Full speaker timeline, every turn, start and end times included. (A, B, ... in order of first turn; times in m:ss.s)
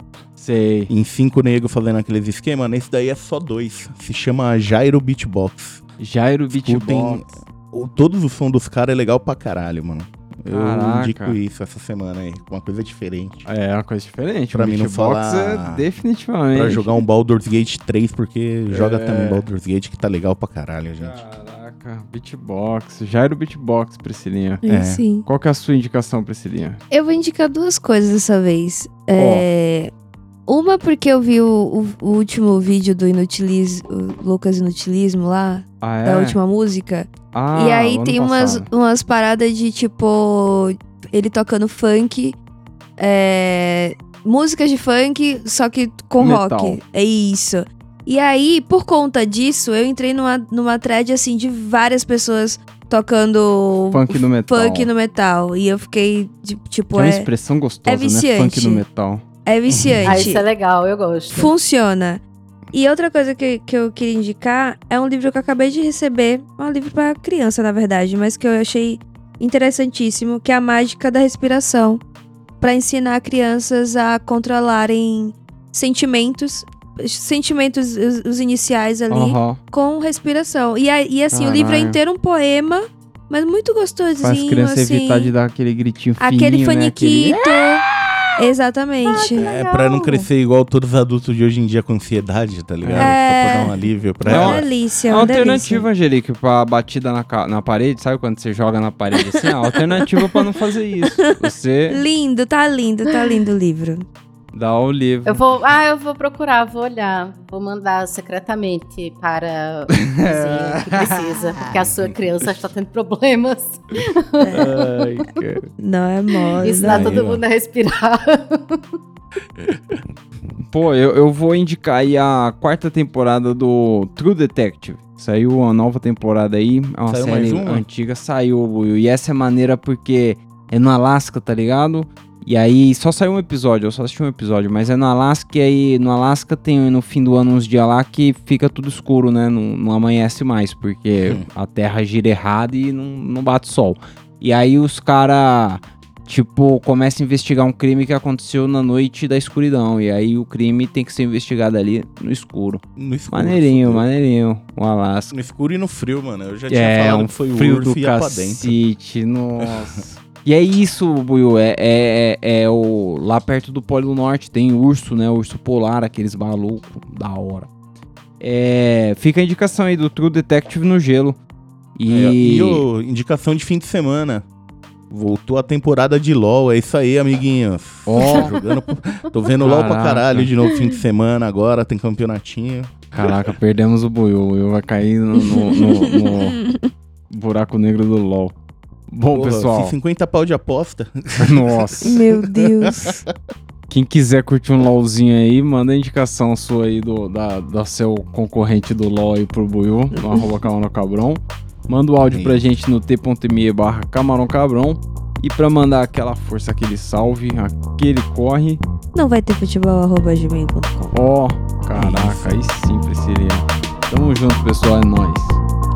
0:00.4-0:00.9 A
0:00.9-0:05.8 B
0:06.0-0:07.2 A
0:06.5-0:13.5 B
0:10.5-0:11.4 A
0:13.5-0:17.0 A
0:14.5-0:15.8 B
0:16.5-0:21.2 B
0:18.7-0:19.5 A
0:21.0-0:24.6 A
0:24.6-0:25.3 C
0:24.6-0:25.0 B
0:25.3-0:26.8 A
0:26.9-0:29.9 C
0:29.2-0:29.5 A
0:30.5-0:42.4 C
0:35.8-0:36.4 A
0:37.3-0:38.7 A
0:43.0-0:57.3 C
0:46.2-0:46.8 A
0:53.9-0:54.9 A
0:56.9-0:59.2 A
0:57.9-0:58.8 C
0:59.4-1:00.4 C
0:59.7-1:00.2 B
1:00.0-1:01.5 D
1:01.3-1:12.0 C
1:12.6-1:25.3 C
1:19.1-1:19.6 A
1:21.3-1:22.0 A
1:24.2-1:27.4 A
1:26.2-1:27.8 C
1:28.4-1:29.5 C
1:29.1-1:30.2 D
1:29.4-1:34.7 B
1:32.8-1:33.2 A
1:33.0-1:33.7 C
1:34.2-1:35.9 C
1:34.3-1:42.0 A
1:39.2-1:44.1 C
1:43.1-1:43.4 D
1:44.5-1:45.4 A
1:45.3-1:55.1 D
1:49.9-1:52.1 A
1:54.4-1:54.7 C
1:54.5-1:55.7 A
1:55.8-1:57.2 C
1:56.6-1:58.8 D
1:56.9-1:57.4 A
2:00.7-2:35.3 A
2:07.1-2:07.8 B
2:33.0-2:34.1 B
2:35.3-2:38.8 B
2:36.7-2:47.7 A
2:39.6-2:40.0 B
2:48.4-2:51.4 A
2:52.0-2:52.8 A
2:52.1-2:54.4 B
2:55.1-3:03.3 B
2:58.1-2:58.5 A
2:59.6-3:00.5 A
3:03.1-3:06.6 A
3:05.4-3:06.9 C
3:07.3-3:08.6 A
3:09.1-3:10.0 A
3:09.3-3:13.3 B
3:11.4-3:12.1 A
3:12.0-3:13.2 C
3:13.9-3:28.8 A
3:22.2-3:22.6 B
3:29.1-3:31.2 C
3:31.1-3:35.6 A
3:31.9-3:32.6 B